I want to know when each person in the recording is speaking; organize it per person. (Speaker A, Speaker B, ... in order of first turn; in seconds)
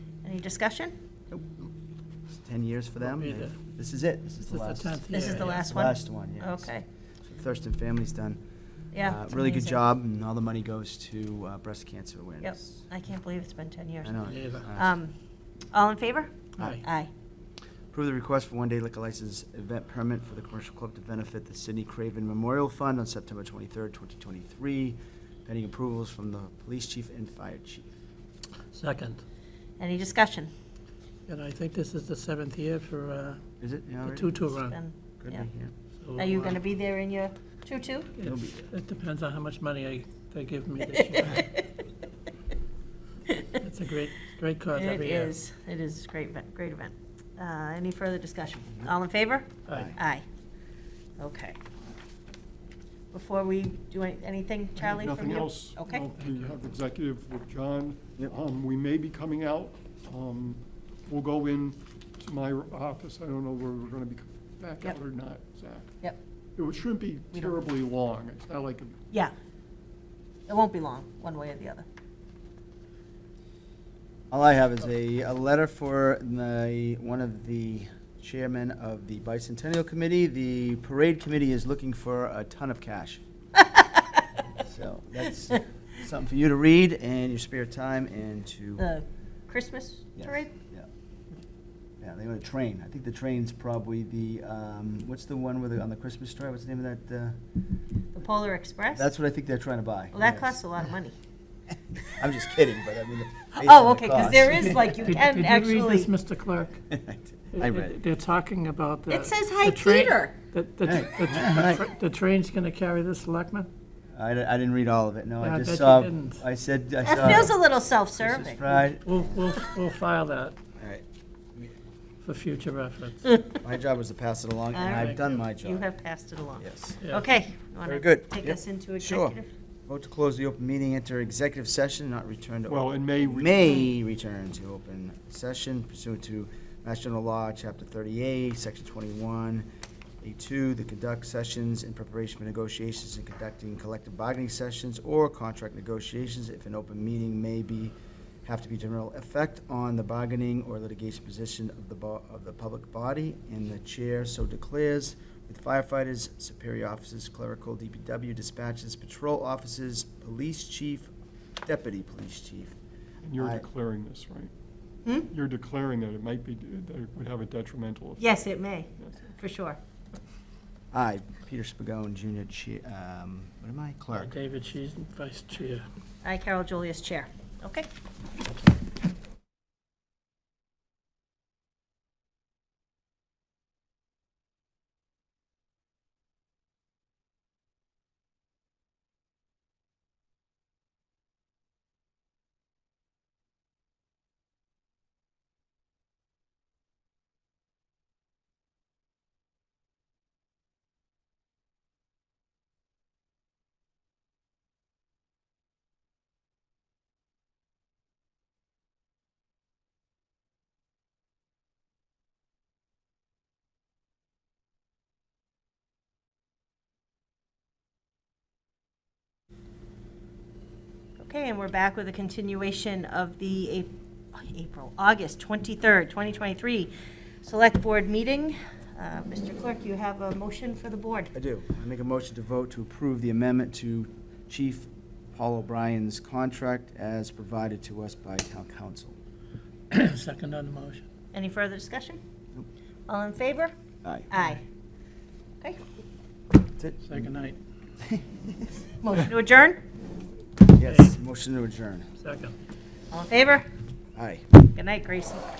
Speaker A: 0.2-0.9, 5.1-6.8, 8.9-9.8, 12.4-15.1, 15.7-17.1, 29.8-30.5, 34.7-35.5, 36.2-38.1, 41.0-41.6, 43.3-43.6, 44.7-50.2, 51.2-51.6, 53.1-56.0, 70.5-71.8, 83.6-84.1, 88.8-90.5, 98.2-99.1, 100.1-101.2, 103.6-106.1, 109.1-110.4, 117.0-118.6, 123.2-123.6, 124.7-129.5, 168.2-169.8, 176.2-177.9, 221.2-226.9, 227.4-231.3, 241.3-242.2, 243.1-243.7, 244.3-244.6, 249.0-249.8, 253.1-253.7, 254.7-255.5
Speaker B: 1.3-1.7, 2.4-6.7, 7.2-8.4, 9.0-12.8, 14.0-14.9, 17.9-27.9, 33.6-34.6, 35.2-35.7, 38.2-38.6, 49.7-50.0, 74.3-83.2, 84.5-88.9, 90.2-90.9, 92.0-97.4, 98.9-100.6, 102.0-105.0, 106.9-108.0, 110.8-111.8, 114.2-117.6, 118.2-119.5, 120.8-121.0, 123.6-125.9, 126.6-127.0, 127.8-129.4, 129.9-139.7, 140.2-162.8, 163.3-163.7, 170.9-174.4, 231.3-239.2, 244.0-244.3, 246.8-247.3, 248.0-248.7, 250.7-252.1, 254.2-254.5
Speaker C: 3.1-3.5, 4.4-5.6, 14.2-14.7, 16.6-16.8, 28.7-29.2, 31.3-33.4, 34.0-34.8, 36.0-36.5, 38.2-41.5, 43.6-45.3, 49.7-49.9, 56.1-56.5, 105.0-106.8, 107.5-113.7, 115.4-116.4, 117.2-117.5, 119.0-120.6, 122.2-123.2, 174.1-175.8, 239.9-241.0, 247.1-247.6, 250.9-251.1, 252.2-252.6
Speaker D: 54.8-66.0, 66.6-69.0, 132.7-133.8, 163.2-164.5, 165.3-168.4